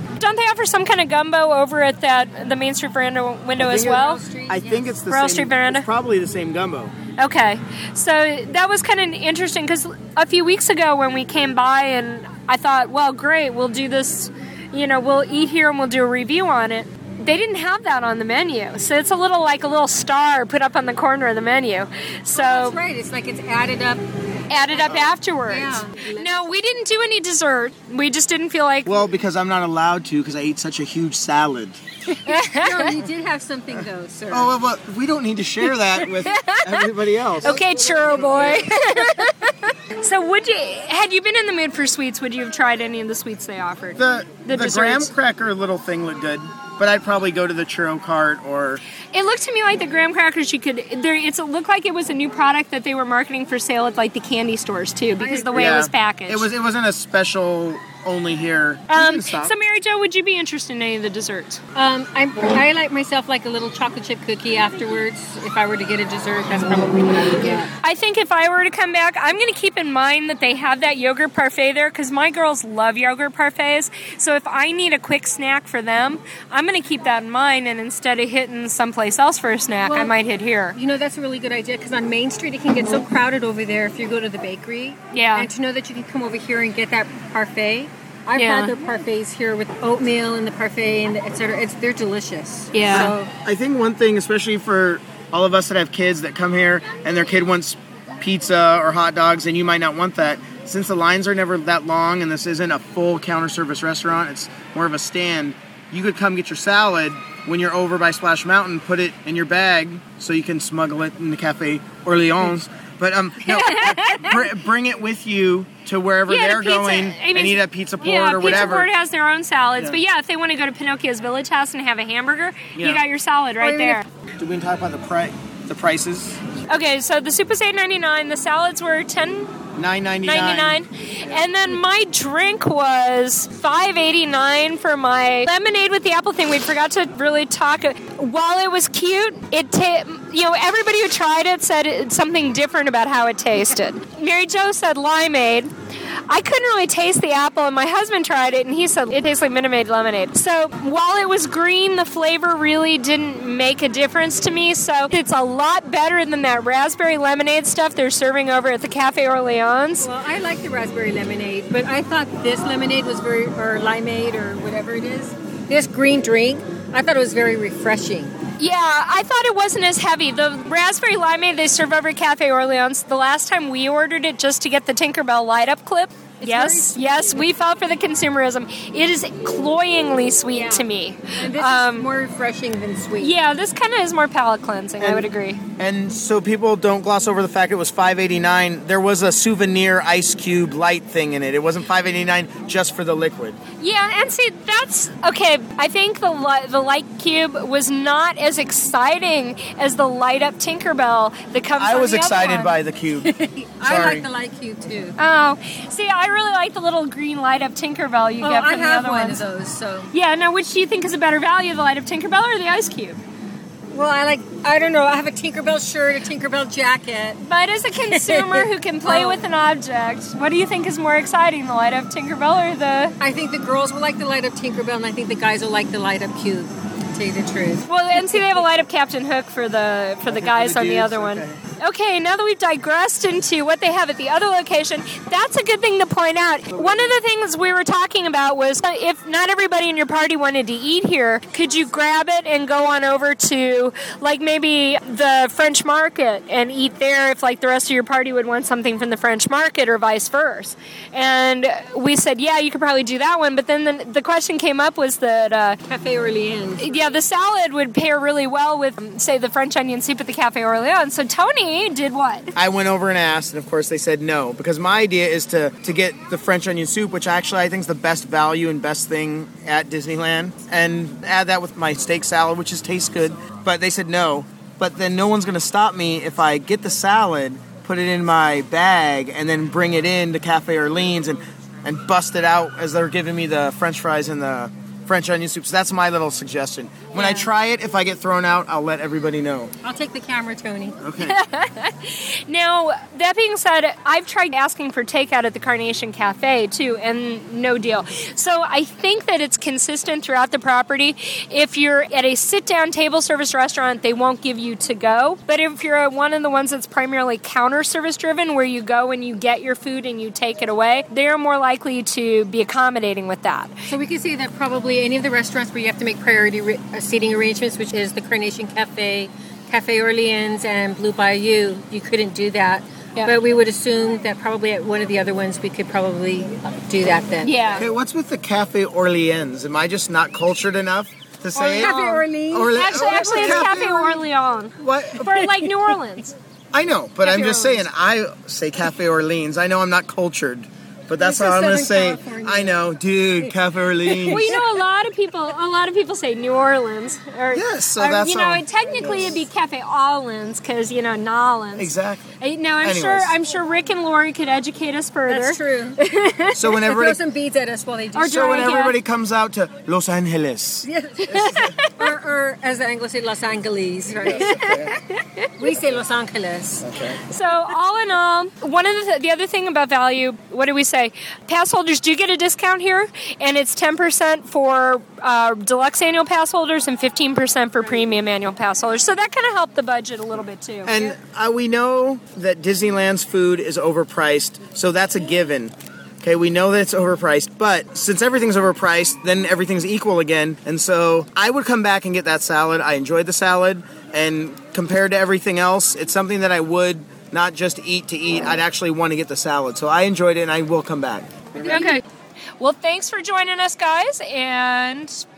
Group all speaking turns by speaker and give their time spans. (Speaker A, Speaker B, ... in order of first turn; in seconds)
Speaker A: 0.2-4.2, 5.0-5.9, 7.2-22.8, 24.5-28.9, 32.3-32.9, 36.3-36.9, 37.4-45.1, 49.1-56.5, 58.9-61.6, 67.8-80.8, 85.1-85.5, 88.3-88.8, 92.7-93.1, 113.4-114.4, 116.3-124.0, 126.7-129.5, 130.2-145.7, 146.3-160.1, 168.6-182.1, 183.2-185.6, 193.8-202.8, 205.2-209.4, 210.1-213.2, 217.4-223.2, 227.9-255.8, 256.8-262.5, 291.2-313.8, 327.4-327.8, 332.7-336.4, 337.2-337.9, 344.3-356.8, 358.1-359.0, 361.5-362.1, 364.4-365.5, 367.2-381.2, 401.6-402.0, 402.6-405.2
Speaker B: 3.6-6.9, 24.9-25.2, 28.9-31.8, 34.3-37.6, 44.0-48.8, 55.5-59.5, 92.9-118.9, 122.8-123.0, 124.4-126.4, 129.8-131.4, 185.0-193.6, 201.8-203.3, 203.8-204.2, 230.3-231.6, 236.7-237.2, 262.6-289.7, 291.0-291.4, 327.8-333.9, 334.8-335.6, 336.7-344.5, 347.5-349.4, 351.8-353.3, 356.5-357.2, 358.3-360.9, 361.4-361.7, 364.2-364.9, 366.8-367.2, 380.9-401.9
Speaker C: 3.8-5.0, 22.3-24.0, 25.5-26.5, 32.1-34.5, 37.5-39.3, 55.2-55.7, 61.8-67.7, 79.8-80.1, 80.7-93.3, 123.6-124.0, 160.0-168.3, 176.4-177.5, 180.5-183.3, 203.2-205.2, 208.4-210.1, 213.9-217.4, 218.0-219.4, 223.2-228.6, 255.9-257.0, 287.1-287.4, 289.8-291.0, 313.9-327.9, 331.5-334.2, 341.2-342.8, 344.1-344.6, 355.3-356.0, 356.8-358.8, 360.8-364.9, 365.6-366.9